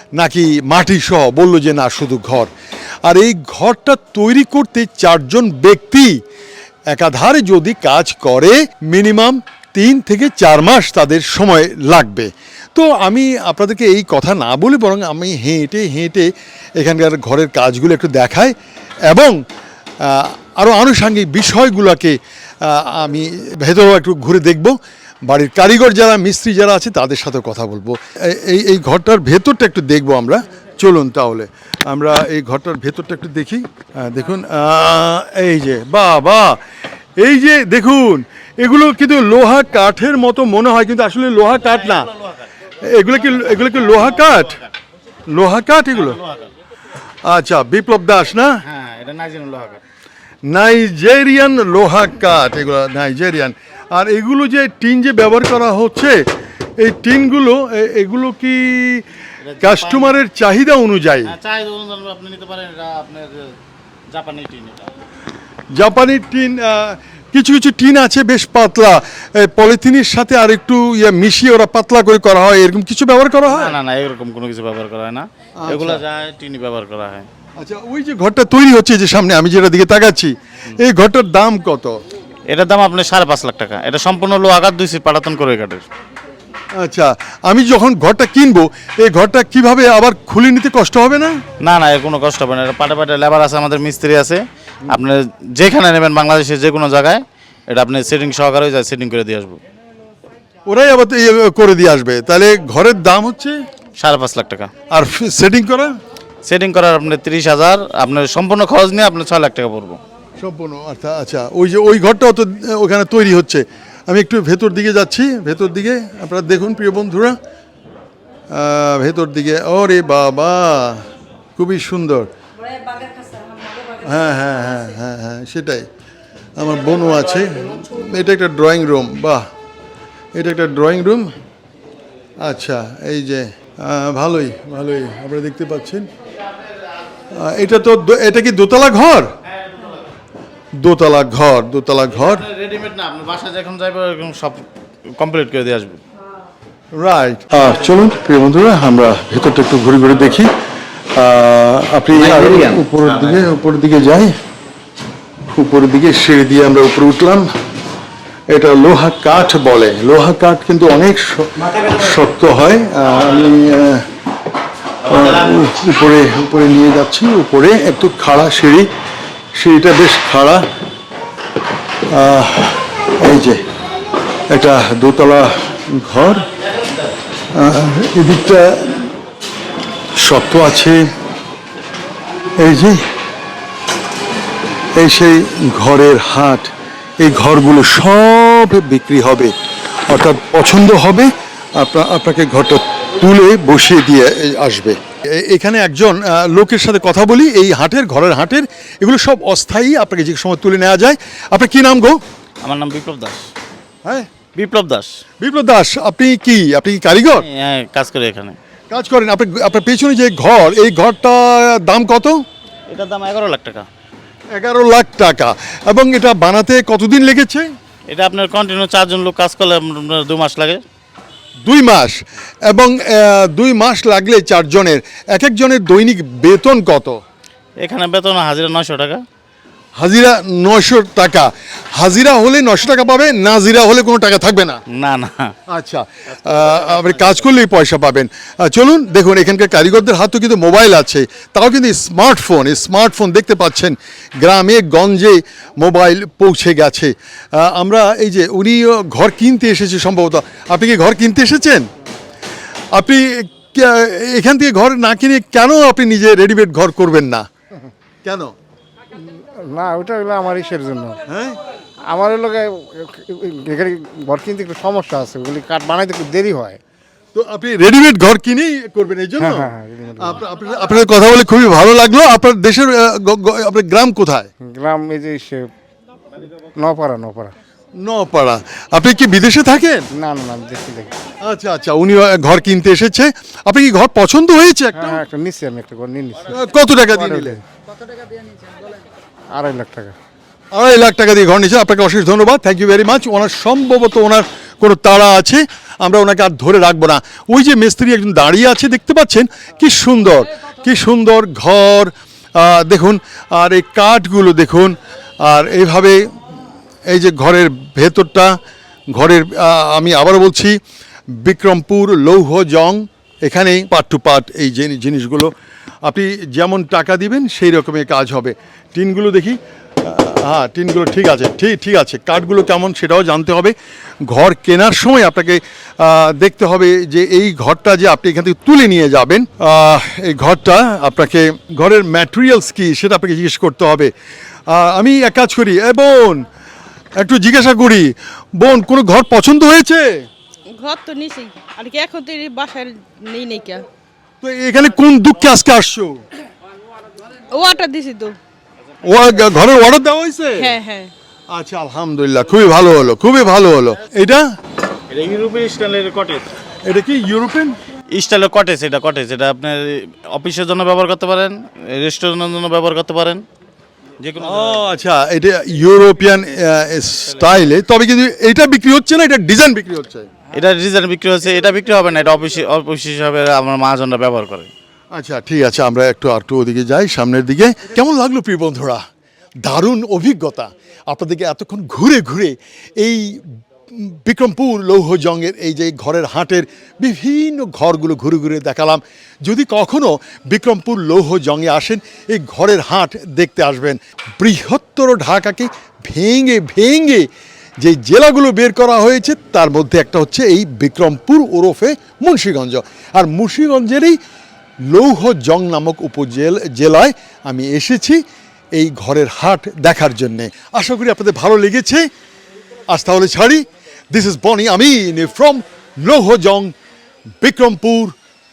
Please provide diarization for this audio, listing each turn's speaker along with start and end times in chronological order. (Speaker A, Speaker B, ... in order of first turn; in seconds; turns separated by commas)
Speaker A: 0.1-2.5, Speaker A: 3.0-6.2, Speaker A: 6.9-18.5, Speaker A: 19.1-19.4, Speaker A: 20.0-24.7, Speaker A: 25.3-36.6, Speaker A: 37.2-42.1, Speaker A: 42.8-44.6, Speaker A: 45.3-46.2, Speaker B: 45.9-46.5, Speaker A: 47.2-48.6, Speaker B: 48.6-49.8, Speaker A: 50.5-56.3, Speaker A: 56.8-59.0, Speaker B: 59.4-60.2, Speaker A: 59.6-61.3, Speaker B: 61.2-63.5, Speaker B: 64.1-64.9, Speaker A: 65.7-73.8, Speaker B: 73.5-77.3, Speaker A: 75.6-76.0, Speaker A: 77.6-82.0, Speaker B: 82.5-85.8, Speaker A: 86.8-91.4, Speaker B: 91.6-99.6, Speaker A: 100.7-103.5, Speaker B: 104.0-104.7, Speaker A: 104.9-105.9, Speaker B: 106.5-110.0, Speaker A: 110.4-117.3, Speaker A: 118.5-121.0, Speaker A: 121.5-122.3, Speaker A: 123.9-125.9, Speaker A: 126.6-129.4, Speaker A: 130.3-131.3, Speaker A: 132.4-136.1, Speaker A: 137.3-139.3, Speaker A: 140.8-142.4, Speaker B: 142.1-146.0, Speaker A: 146.9-150.5, Speaker A: 151.1-154.3, Speaker A: 155.5-157.5, Speaker A: 158.5-164.0, Speaker A: 165.0-168.9, Speaker A: 169.6-170.6, Speaker A: 172.1-173.6, Speaker A: 174.5-176.5, Speaker A: 177.5-179.0, Speaker A: 180.2-181.1, Speaker A: 182.6-183.0, Speaker A: 184.9-189.5, Speaker A: 190.1-202.2, Speaker B: 202.6-203.4, Speaker A: 204.0-204.3, Speaker B: 204.5-205.1, Speaker A: 205.4-207.4, Speaker B: 207.3-208.6, Speaker A: 208.9-212.4, Speaker B: 212.9-213.9, Speaker A: 214.5-217.7, Speaker B: 218.1-220.8, Speaker A: 221.6-227.2, Speaker B: 227.8-229.2, Speaker A: 230.0-234.8, Speaker B: 234.9-235.5, Speaker A: 235.7-251.9, Speaker B: 236.3-237.1, Speaker A: 252.9-257.4, Speaker A: 258.2-258.5, Speaker C: 259.6-261.2, Speaker A: 261.3-261.6, Speaker C: 262.1-266.8, Speaker A: 267.3-274.5, Speaker C: 269.4-270.4, Speaker C: 274.6-275.7, Speaker C: 276.7-277.5, Speaker A: 278.0-280.1, Speaker C: 280.1-281.1, Speaker A: 281.4-285.2, Speaker C: 284.9-287.6, Speaker A: 286.5-287.6, Speaker C: 289.5-290.1, Speaker A: 290.7-306.2, Speaker A: 307.1-308.6, Speaker A: 309.1-310.8, Speaker A: 311.4-315.5, Speaker A: 316.0-323.7, Speaker A: 324.3-334.1, Speaker A: 334.7-336.4, Speaker A: 337.2-340.3, Speaker D: 340.7-343.9, Speaker A: 344.4-346.2, Speaker D: 347.5-348.4, Speaker A: 349.0-350.8, Speaker D: 350.6-351.1, Speaker A: 351.5-354.4, Speaker B: 355.1-356.5, Speaker A: 356.9-357.8, Speaker B: 358.1-363.4, Speaker B: 364.2-364.9, Speaker A: 364.4-370.3, Speaker B: 370.5-374.7, Speaker A: 375.1-379.0, Speaker A: 379.6-383.4, Speaker A: 383.9-397.3, Speaker A: 397.8-404.2, Speaker A: 404.9-408.2, Speaker A: 408.8-412.0, Speaker A: 412.9-416.7, Speaker A: 417.4-418.1